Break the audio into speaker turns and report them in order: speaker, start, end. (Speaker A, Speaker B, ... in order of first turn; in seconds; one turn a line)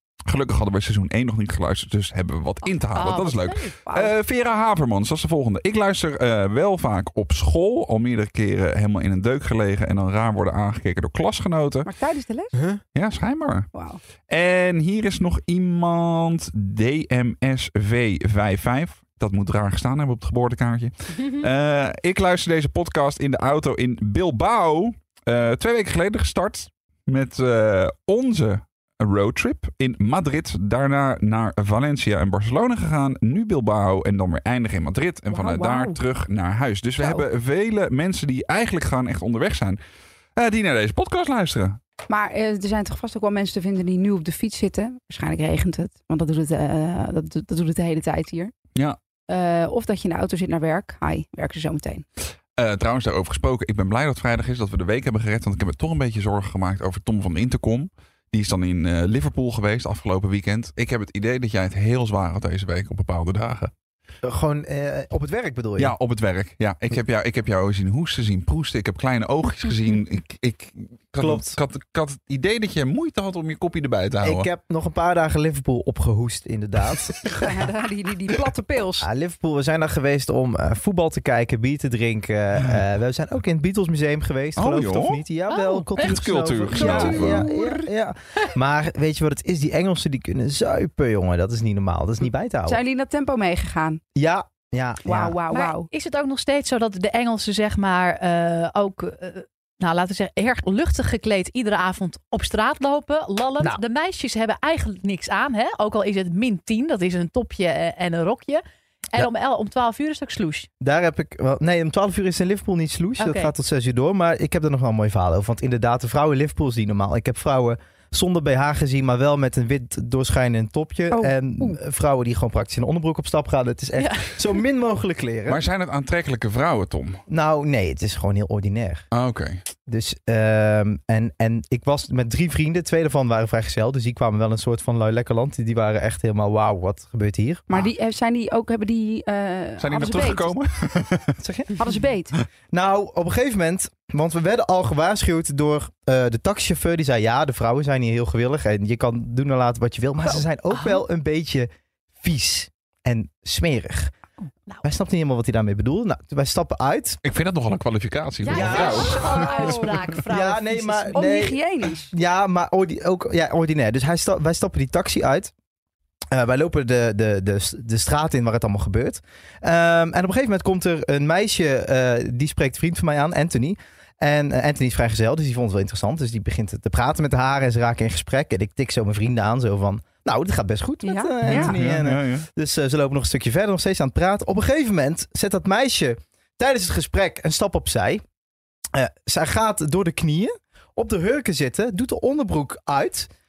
Speaker A: 0.3-11.9
Speaker B: 2.8-4.1
Speaker C: 11.8-12.5
Speaker A: 12.9-13.7
Speaker C: 13.7-14.0
Speaker A: 14.3-39.8
Speaker C: 35.3-36.0
Speaker A: 40.4-41.8
Speaker C: 42.1-48.5
Speaker C: 49.3-52.0
Speaker A: 52.6-63.7
Speaker D: 64.2-65.9
Speaker A: 65.8-74.5
Speaker D: 71.2-71.6
Speaker D: 74.2-77.6
Speaker C: 77.4-79.1
Speaker D: 79.0-92.8
Speaker A: 84.6-85.2
Speaker B: 85.5-86.2
Speaker A: 86.0-87.5
Speaker C: 86.7-87.6
Speaker B: 86.8-87.3
Speaker C: 92.7-94.0
Speaker D: 94.2-95.4
Speaker C: 95.0-95.9
Speaker B: 95.5-110.7
Speaker D: 110.8-125.6
Speaker B: 113.2-113.5
Speaker C: 121.1-121.8
Speaker B: 124.0-124.3
Speaker A: 125.5-127.2
Speaker D: 127.3-129.0
Speaker A: 129.1-129.6
Speaker D: 129.9-137.8
Speaker C: 137.7-140.6
Speaker A: 139.8-141.4
Speaker D: 141.4-141.8
Speaker C: 141.8-142.3
Speaker D: 142.7-151.7
Speaker D: 152.2-154.1
Speaker D: 154.8-157.2
Speaker A: 157.2-159.8
Speaker B: 158.4-161.2
Speaker D: 158.5-161.6
Speaker C: 158.8-160.0
Speaker C: 161.1-162.1
Speaker D: 162.1-165.5
Speaker D: 166.3-188.2
Speaker C: 181.0-181.8
Speaker A: 181.4-182.5
Speaker D: 188.9-193.3